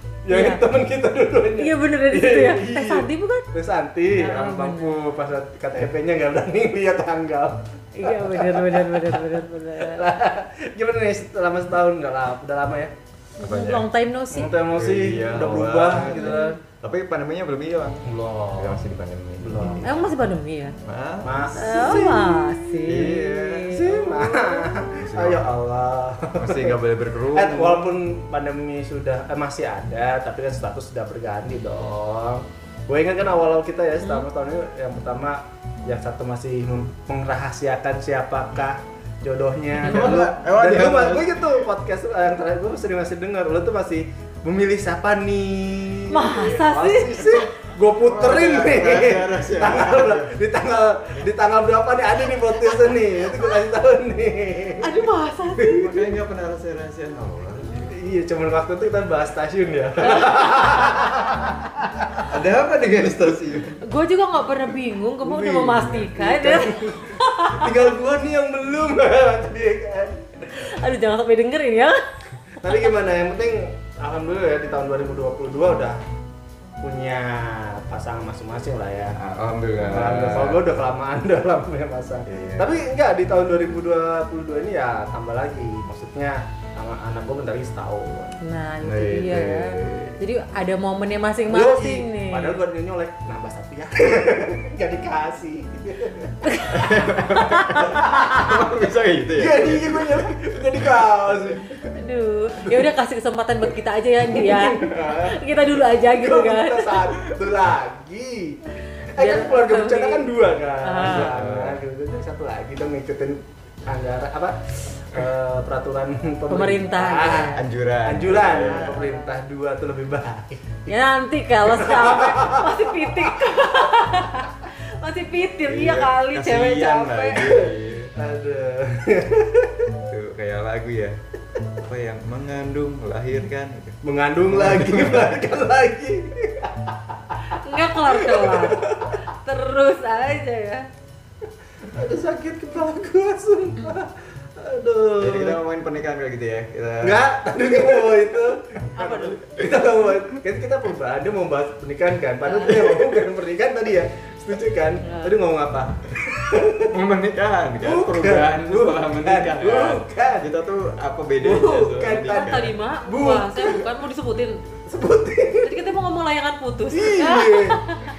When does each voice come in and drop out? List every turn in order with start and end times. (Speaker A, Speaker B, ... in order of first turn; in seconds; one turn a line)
Speaker A: 0.2-12.9
Speaker B: 0.3-0.6
Speaker B: 1.6-3.5
Speaker B: 4.1-5.0
Speaker B: 8.0-10.0
Speaker B: 13.4-14.5
Speaker C: 13.4-13.8
Speaker A: 14.3-16.6
Speaker C: 14.7-18.0
Speaker B: 16.0-16.6
Speaker A: 18.0-18.8
Speaker C: 18.6-20.2
Speaker A: 19.4-19.9
Speaker B: 19.8-20.8
Speaker C: 20.8-22.2
Speaker A: 21.2-23.1
Speaker B: 21.5-24.6
Speaker C: 22.8-24.2
Speaker A: 23.7-26.8
Speaker C: 24.9-25.6
Speaker C: 26.4-27.9
Speaker A: 27.3-54.9
Speaker B: 39.8-40.2
Speaker C: 39.8-41.5
Speaker B: 46.1-47.5
Speaker C: 48.0-50.3
Speaker B: 54.8-55.9
Speaker A: 55.5-55.8
Speaker C: 55.7-58.0
Speaker A: 57.9-62.3
Speaker C: 60.0-60.3
Speaker C: 62.2-63.8
Speaker B: 63.8-67.7
Speaker A: 65.2-70.3
Speaker B: 70.5-72.0
Speaker A: 72.6-76.0
Speaker A: 76.8-79.2
Speaker C: 79.2-80.6
Speaker A: 79.8-88.3
Speaker C: 82.2-82.7
Speaker B: 88.4-92.6
Speaker C: 88.8-90.2
Speaker A: 91.5-96.7
Speaker B: 96.4-97.8
Speaker C: 96.7-101.9
Speaker A: 97.5-98.7
Speaker A: 99.3-101.7
Speaker B: 101.9-107.0
Speaker A: 102.6-102.9
Speaker A: 104.3-105.0
Speaker C: 104.8-105.4
Speaker A: 106.0-117.5
Speaker B: 109.1-111.3
Speaker C: 111.0-111.8
Speaker B: 116.5-117.6
Speaker C: 117.5-119.0
Speaker A: 118.0-120.9
Speaker B: 118.7-119.3
Speaker B: 120.9-127.5
Speaker A: 121.7-123.7
Speaker C: 125.7-128.1
Speaker A: 128.2-129.9
Speaker C: 130.1-131.2
Speaker C: 131.8-135.4
Speaker A: 134.0-139.2
Speaker B: 137.6-140.8
Speaker A: 141.9-145.6
Speaker C: 145.2-147.2
Speaker A: 147.0-156.9
Speaker B: 148.9-149.4
Speaker B: 152.5-152.8
Speaker B: 155.0-155.4
Speaker C: 156.9-162.8
Speaker A: 157.8-160.5
Speaker A: 161.4-162.5
Speaker B: 162.0-164.6
Speaker A: 163.1-163.9
Speaker A: 164.8-165.8
Speaker B: 165.6-168.0
Speaker A: 166.9-167.8